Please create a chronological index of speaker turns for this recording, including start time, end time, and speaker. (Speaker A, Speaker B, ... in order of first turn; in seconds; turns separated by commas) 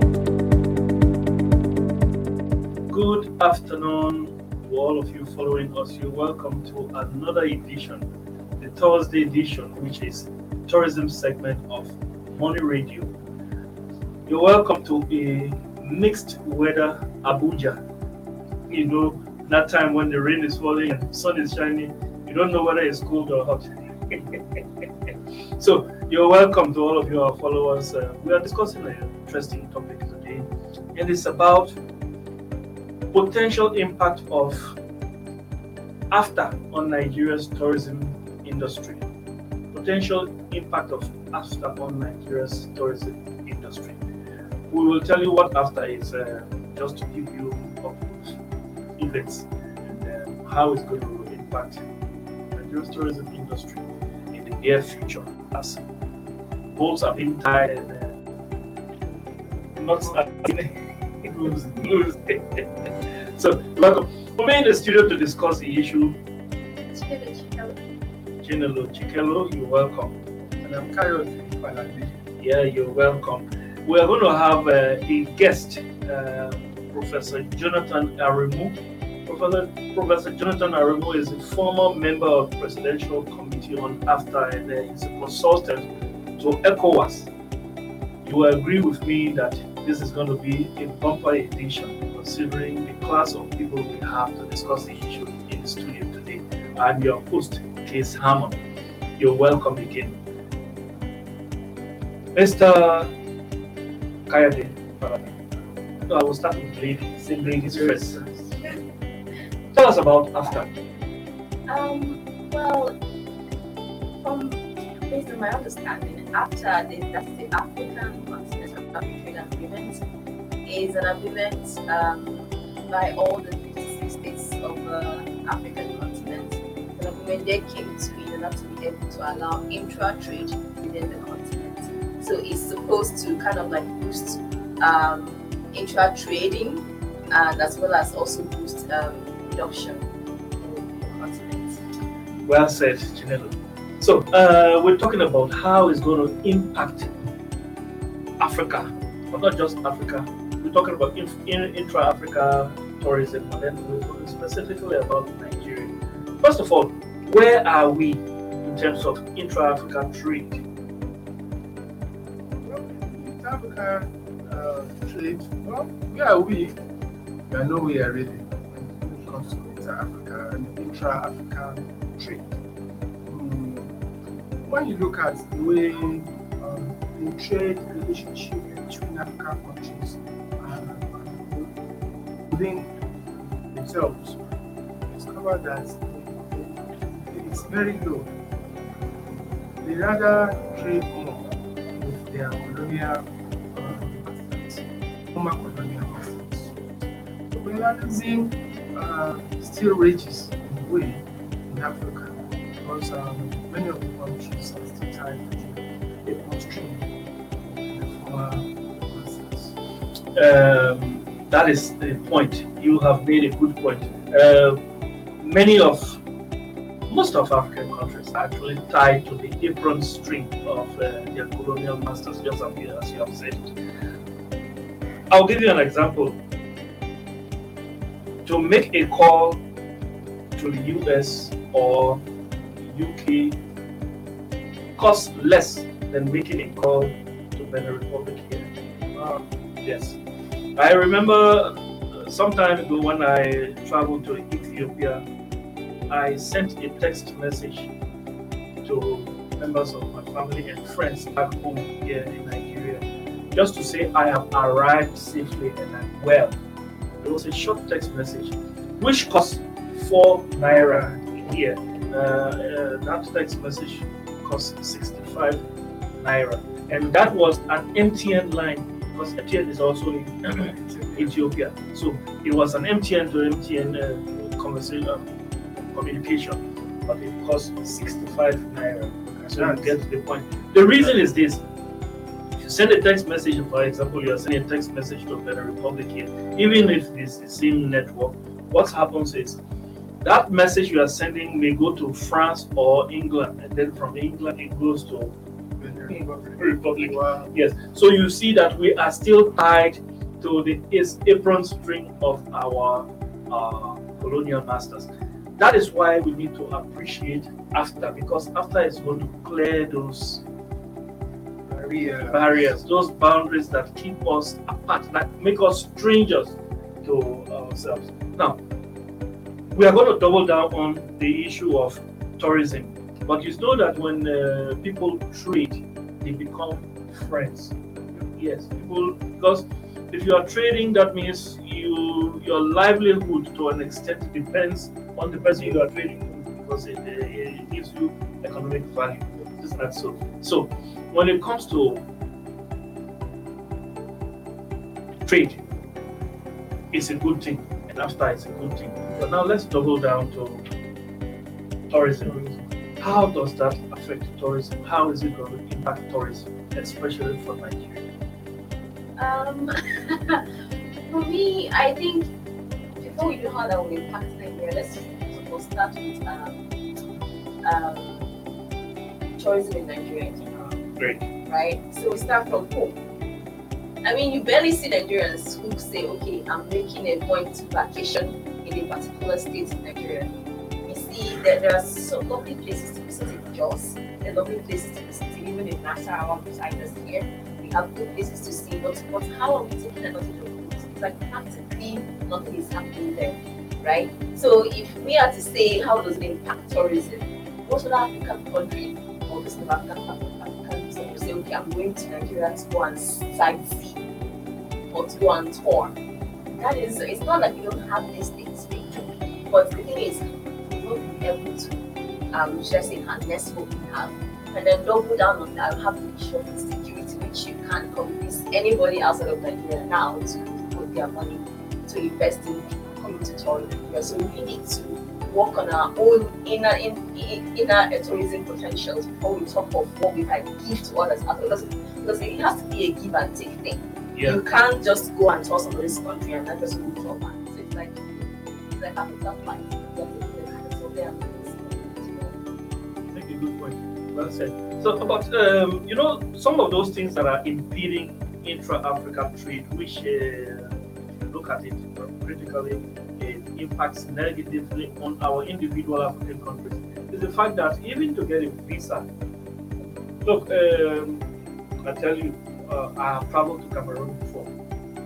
Speaker A: 2.9-8.0, Speaker A: 8.6-13.1, Speaker A: 14.3-17.8, Speaker A: 18.7-31.7, Speaker A: 33.1-34.7, Speaker A: 36.1-39.0, Speaker A: 39.7-44.0, Speaker A: 44.7-48.4, Speaker A: 49.0-51.8, Speaker A: 52.5-55.8, Speaker A: 56.7-58.2, Speaker A: 59.8-66.2, Speaker B: 61.3-61.6, Speaker C: 66.9-67.8, Speaker A: 68.4-70.2, Speaker B: 70.6-72.2, Speaker A: 72.4-85.9, Speaker A: 86.4-87.3, Speaker A: 88.2-98.5, Speaker A: 99.2-100.2, Speaker A: 102.3-103.1, Speaker A: 104.3-105.3, Speaker A: 106.1-108.2, Speaker B: 107.6-108.7, Speaker A: 109.7-110.7, Speaker C: 111.7-113.0, Speaker C: 114.2-120.0, Speaker C: 120.6-140.0, Speaker C: 140.6-141.8, Speaker A: 142.4-147.1, Speaker A: 148.4-160.6, Speaker B: 162.6-166.8, Speaker B: 167.5-172.5, Speaker B: 173.2-173.9, Speaker B: 174.7-181.7, Speaker B: 182.5-182.9, Speaker B: 183.7-184.5, Speaker B: 185.1-188.3, Speaker B: 189.3-209.8, Speaker A: 210.3-214.8, Speaker A: 215.4-216.2, Speaker A: 217.1-223.7, Speaker A: 225.3-226.4, Speaker A: 228.4-229.6, Speaker A: 230.6-232.2, Speaker A: 232.8-233.6, Speaker A: 235.0-240.2, Speaker A: 240.8-245.2, Speaker A: 246.1-247.9, Speaker A: 248.8-256.5, Speaker A: 257.2-265.6, Speaker B: 260.7-261.2, Speaker A: 266.2-281.6, Speaker B: 270.7-271.3, Speaker B: 279.3-279.9, Speaker A: 282.6-289.6, Speaker A: 290.2-295.3, Speaker B: 295.8-297.5, Speaker A: 296.6-310.4, Speaker B: 311.6-312.7, Speaker A: 312.2-318.6, Speaker A: 319.7-327.8, Speaker A: 328.3-342.0, Speaker A: 345.2-345.6, Speaker A: 346.9-350.6, Speaker A: 351.9-358.1, Speaker C: 359.2-360.5, Speaker C: 361.1-362.3, Speaker C: 363.0-366.6, Speaker C: 367.6-368.3, Speaker C: 369.4-370.8, Speaker A: 370.9-371.2, Speaker C: 371.4-373.0, Speaker C: 374.0-404.0, Speaker C: 404.9-406.0, Speaker C: 406.5-442.4, Speaker A: 434.1-434.4, Speaker A: 443.1-459.1, Speaker A: 460.2-461.2, Speaker A: 461.8-464.5